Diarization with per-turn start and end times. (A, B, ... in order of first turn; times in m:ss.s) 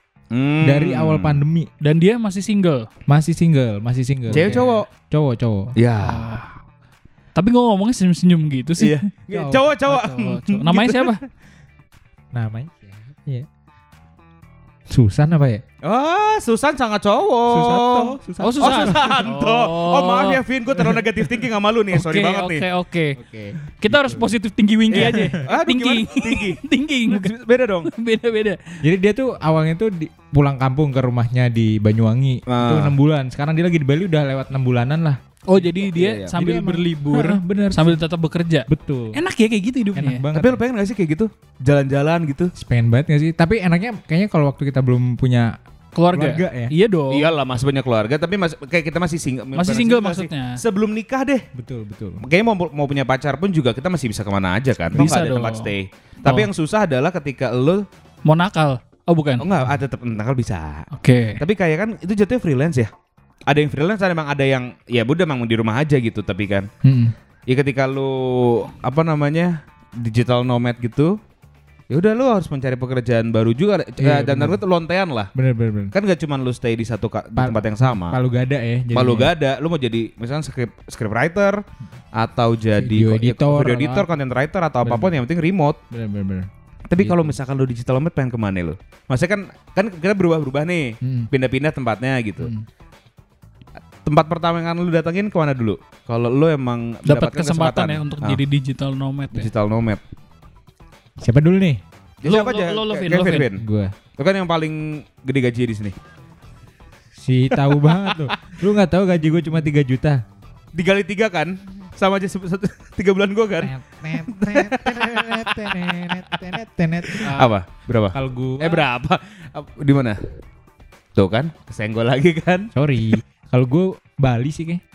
0:00.3-0:01.4 A
0:00.6-0:01.7 B
0:01.8-0:02.9 C
0:03.1-0:05.7 B
0:04.3-0:04.7 C
0:04.3-0:04.9 A
0:05.8-0:06.4 A
0:06.0-0:06.4 C
0:07.3-0:09.1 C
0:08.8-0:11.2 A
0:09.3-0:09.7 B
0:09.8-0:11.2 C
0:12.3-0:13.4 B
0:14.9-0:15.6 B
0:15.8-0:22.6 A
0:17.5-0:19.3 B
0:18.4-0:20.4 C
0:21.9-0:23.2 C
0:23.2-0:24.3 B
0:23.8-0:27.3 C
0:24.9-0:25.4 B
0:24.9-0:27.9 A
0:27.8-0:28.6 C
0:28.8-0:35.7 B
0:32.5-0:33.0 A
0:35.5-0:40.2 C
0:35.9-0:36.3 A
0:36.3-0:38.0 B
0:38.7-0:39.2 B
0:39.9-0:40.6 B
0:40.3-0:42.5 A
0:42.6-0:45.5 B
0:45.9-0:47.3 C
0:46.1-0:46.7 B
0:47.1-0:51.4 A
0:49.5-0:50.6 C
0:51.5-0:52.2 B
0:52.2-0:57.8 A
0:54.9-0:55.7 C
0:58.2-0:59.4 C
0:59.4-1:00.9 A
1:00.9-1:01.4 C
1:01.4-1:02.9 A
1:03.5-1:06.7 A
1:06.8-1:07.1 B
1:07.5-1:11.1 A
1:11.9-1:15.3 A
1:14.0-1:14.6 B
1:15.3-1:15.9 B
1:15.9-1:18.2 A
1:17.4-1:19.3 B
1:18.9-1:21.6 A
1:22.2-1:25.8 A
1:22.7-1:24.1 B
1:24.8-1:25.2 B
1:25.9-1:27.4 B
1:26.9-1:32.5 A
1:31.0-1:31.3 B
1:32.4-1:32.6 B
1:34.0-1:38.4 A
1:37.0-1:39.5 C
1:39.3-1:40.0 A
1:41.2-1:41.8 B
1:42.2-1:43.6 A
1:42.2-1:43.5 C
1:43.6-1:43.9 B
1:44.2-1:46.0 A
1:47.2-1:50.2 B
1:50.7-1:56.4 A
1:53.6-1:57.6 B
1:57.1-2:00.2 A
1:58.1-1:58.8 B
2:01.2-2:02.7 A
2:02.7-2:04.8 B